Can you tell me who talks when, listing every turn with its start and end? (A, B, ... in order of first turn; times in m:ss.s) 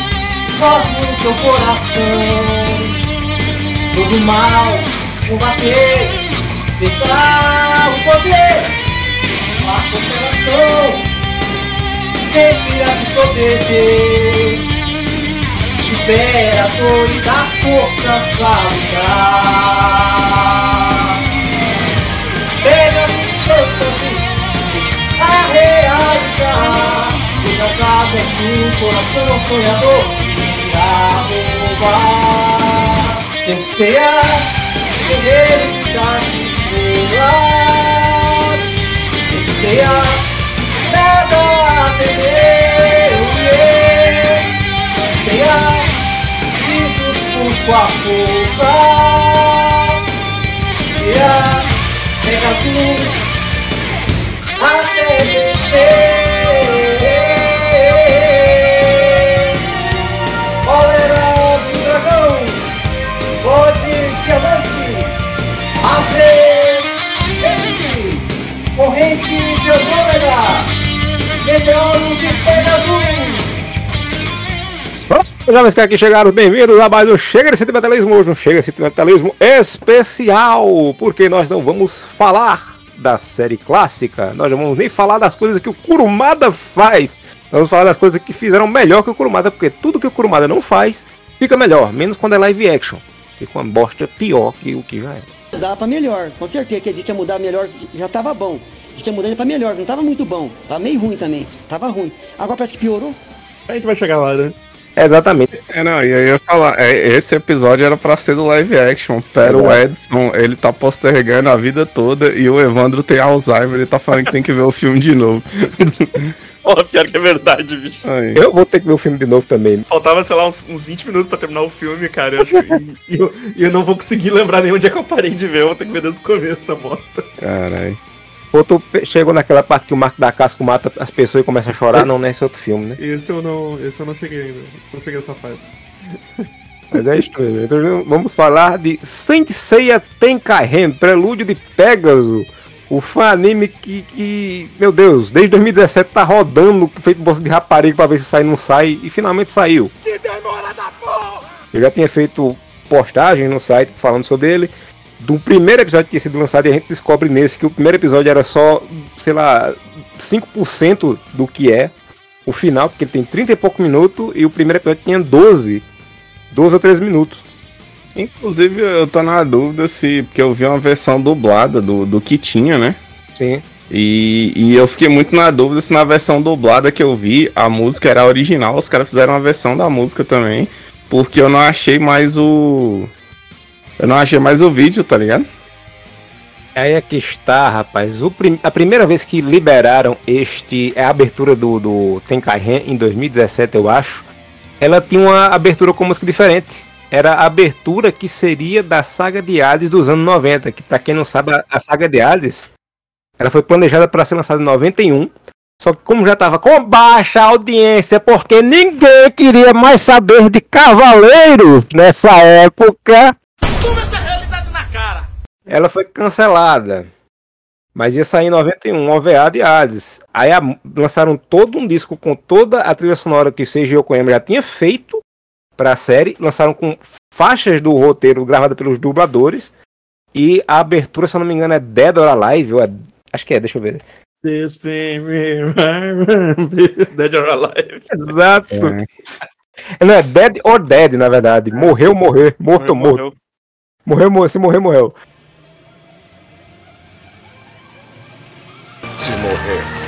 0:00.5-0:02.9 A
0:03.9-0:06.2 A
0:06.8-0:08.7 A
0:09.6-0:11.0 A
0:12.3-0:14.6 A
0:15.8-0:20.8 A
0:22.6-0:24.3 A
0:25.2-0:34.5 A
0:35.0-0:38.6 A
0:39.3-0:40.2 A
0:40.8-0:44.4 A
0:45.2-0:45.9 A
0:46.6-0:49.9 A
0:51.0-0:51.7 A
0:52.2-0:53.2 A
0:54.6-0:59.5 A
1:00.6-1:02.6 A
1:03.4-1:05.1 A
1:05.8-1:06.9 A
1:07.4-1:10.7 A
1:11.4-1:13.5 A
1:15.1-1:35.3 B
1:35.6-1:43.2 C
1:43.7-1:44.5 D
1:45.0-1:45.5 B
1:45.7-1:56.3 E
1:49.4-1:49.8 B
1:56.6-1:58.0 D
1:58.0-1:58.4 E
1:58.3-1:59.8 B
1:59.9-2:07.3 D
2:07.4-2:08.0 E
2:08.5-2:13.0 B
2:13.0-2:15.7 D
2:16.9-2:29.9 B
2:30.1-2:31.2 A
2:31.7-2:41.9 B
2:42.4-2:45.8 B
2:46.5-2:47.4 B
2:48.1-2:53.0 E
2:53.3-2:53.6 B
2:53.9-3:03.1 E
3:04.0-3:05.4 E
3:06.8-3:14.2 B
3:14.8-3:22.7 B
3:23.4-3:33.3 B
3:35.7-3:37.1 B
3:37.9-3:45.2 B
3:45.8-3:49.7 B
3:50.3-3:54.0 B
3:54.4-3:58.1 D
3:58.1-3:59.0 B
3:58.7-3:59.0 E
4:00.0-4:03.2 B
4:02.8-4:03.3 D
4:04.1-4:05.1 B